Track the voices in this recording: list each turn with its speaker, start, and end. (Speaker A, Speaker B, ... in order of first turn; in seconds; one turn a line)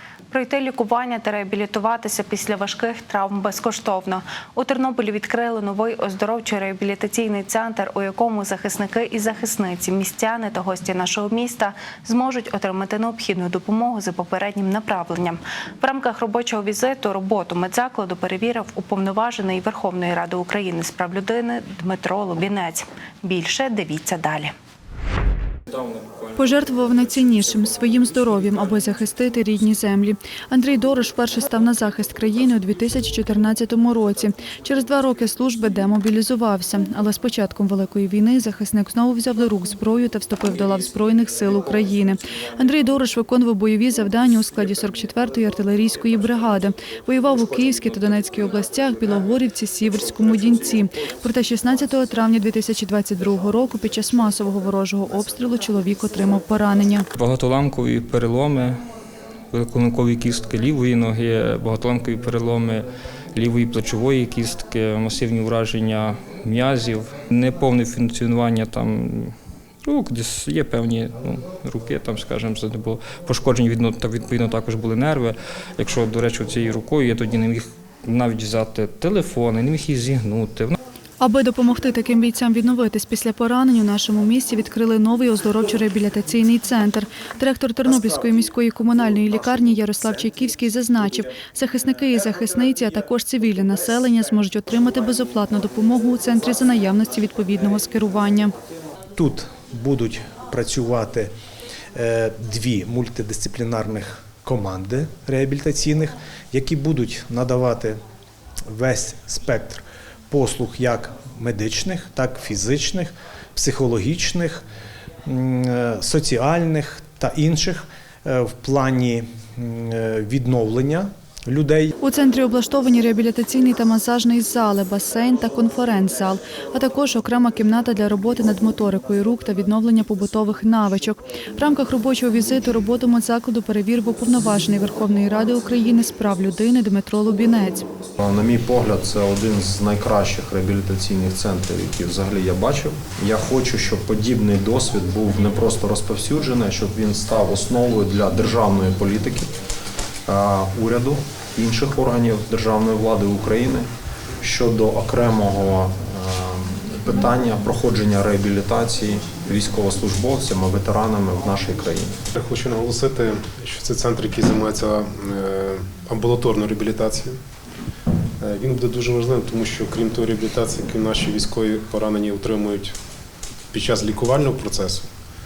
Speaker A: 0.3-24.5
Speaker B: 25.8-26.1
Speaker C: 26.4-57.1
Speaker B: 57.1-58.8
Speaker B: 59.5-80.8
Speaker C: 81.2-98.5
Speaker D: 99.2-101.3
Speaker D: 102.0-108.0
Speaker D: 108.7-114.6
Speaker D: 115.3-121.9
Speaker C: 122.0-137.8
Speaker E: 138.2-149.5
Speaker E: 150.3-153.9
Speaker E: 154.4-162.2
Speaker F: 162.3-167.4
Speaker F: 168.4-173.0
Speaker F: 173.7-175.1